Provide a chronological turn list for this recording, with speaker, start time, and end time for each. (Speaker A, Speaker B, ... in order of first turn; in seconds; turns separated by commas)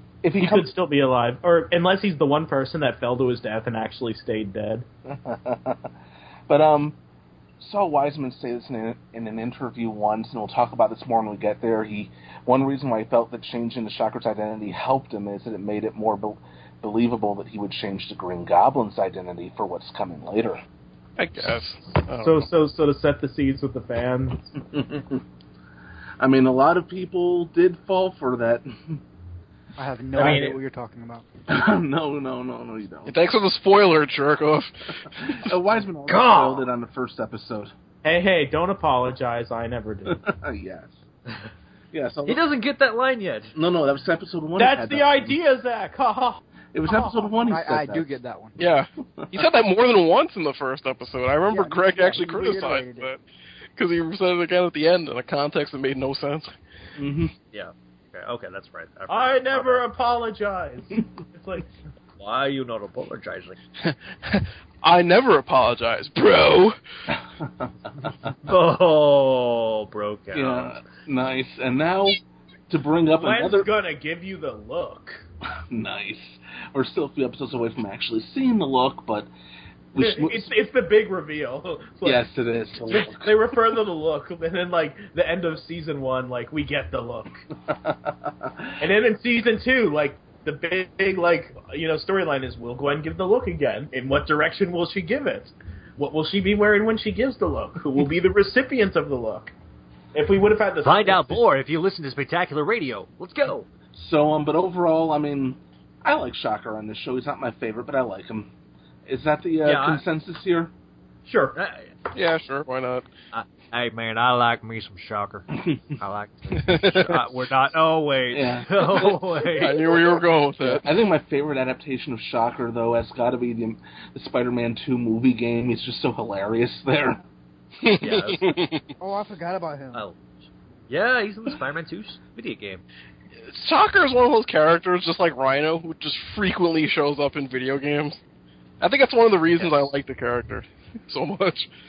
Speaker A: 0.2-0.7, Speaker B: 0.4-4.8, Speaker A: 5.1-5.9, Speaker A: 6.5-7.0, Speaker A: 7.6-20.6, Speaker C: 21.2-22.4, Speaker B: 22.2-24.4, Speaker A: 24.6-25.2, Speaker A: 26.2-29.0, Speaker D: 29.8-31.3, Speaker B: 30.1-30.6, Speaker A: 30.2-30.5, Speaker A: 31.5-33.1, Speaker C: 33.1-34.7, Speaker A: 35.4-37.7, Speaker E: 36.1-36.7, Speaker B: 38.0-40.2, Speaker A: 40.1-41.0, Speaker A: 41.9-42.4, Speaker E: 42.2-43.5, Speaker A: 43.5-45.3, Speaker B: 44.5-47.3, Speaker A: 46.7-48.1, Speaker D: 47.4-48.6, Speaker C: 48.6-53.2, Speaker A: 49.2-49.5, Speaker D: 51.5-53.1, Speaker C: 53.8-56.5, Speaker A: 57.0-57.3, Speaker E: 57.5-59.8, Speaker B: 59.1-61.7, Speaker E: 62.2-63.6, Speaker C: 63.9-66.8, Speaker E: 68.4-70.8, Speaker A: 70.3-73.7, Speaker B: 73.1-75.2, Speaker A: 75.7-79.3, Speaker A: 79.9-80.5, Speaker B: 80.0-82.2, Speaker A: 82.0-83.3, Speaker B: 82.9-87.4, Speaker A: 87.7-88.7, Speaker B: 88.8-99.5, Speaker B: 100.1-101.5, Speaker E: 100.8-103.7, Speaker A: 103.9-108.5, Speaker A: 109.1-110.7, Speaker E: 109.6-110.0, Speaker B: 111.2-111.5, Speaker E: 111.5-111.9, Speaker C: 112.1-113.0, Speaker E: 113.3-119.9, Speaker C: 116.6-117.2, Speaker A: 118.3-127.2, Speaker C: 119.6-120.8, Speaker C: 127.8-128.8, Speaker E: 128.0-128.5, Speaker D: 129.0-130.0, Speaker E: 129.9-132.8, Speaker C: 133.5-138.2, Speaker C: 138.8-141.7, Speaker E: 139.5-139.9